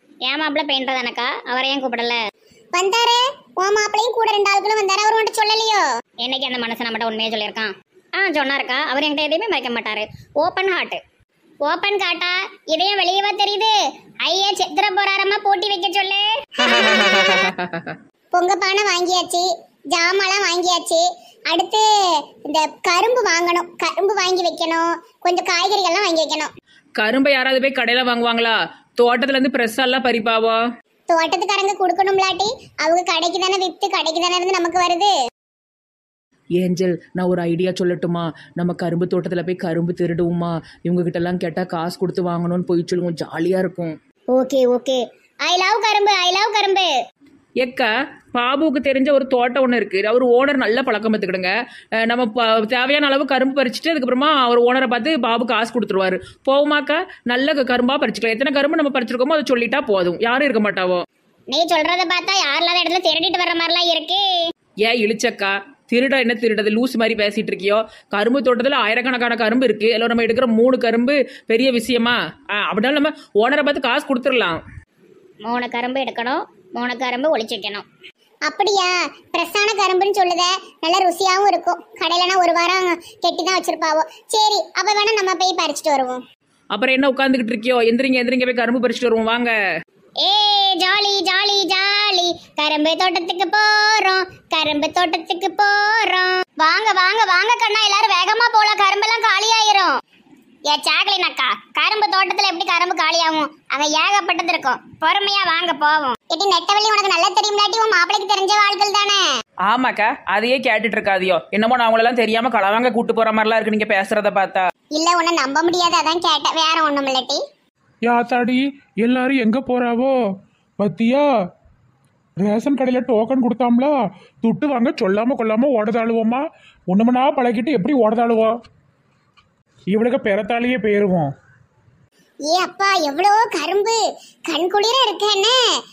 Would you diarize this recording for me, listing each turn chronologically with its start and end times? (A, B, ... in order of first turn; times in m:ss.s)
0:00.2-0:02.2 A
0:02.7-0:05.8 B
0:06.2-0:11.0 A
0:11.6-0:17.0 A
0:16.6-0:18.0 C
0:18.3-0:21.8 B
0:22.4-0:26.5 B
0:27.0-0:30.6 C
0:31.1-0:35.1 B
0:36.6-0:43.9 C
0:44.3-0:46.9 A
0:47.6-0:51.5 C
0:52.0-1:01.0 C
1:01.5-1:04.2 A
1:04.8-1:14.6 C
1:15.4-1:17.8 A
1:18.5-1:26.2 B
1:26.7-1:29.5 C
1:30.2-1:39.9 A
1:40.7-1:46.1 A
1:46.3-1:49.2 B
1:49.6-1:54.7 C
1:55.0-1:57.4 B
1:58.0-2:00.1 D
2:00.8-2:01.2 D
2:02.4-2:08.5 D
2:09.9-2:11.3 D
2:12.5-2:15.6 B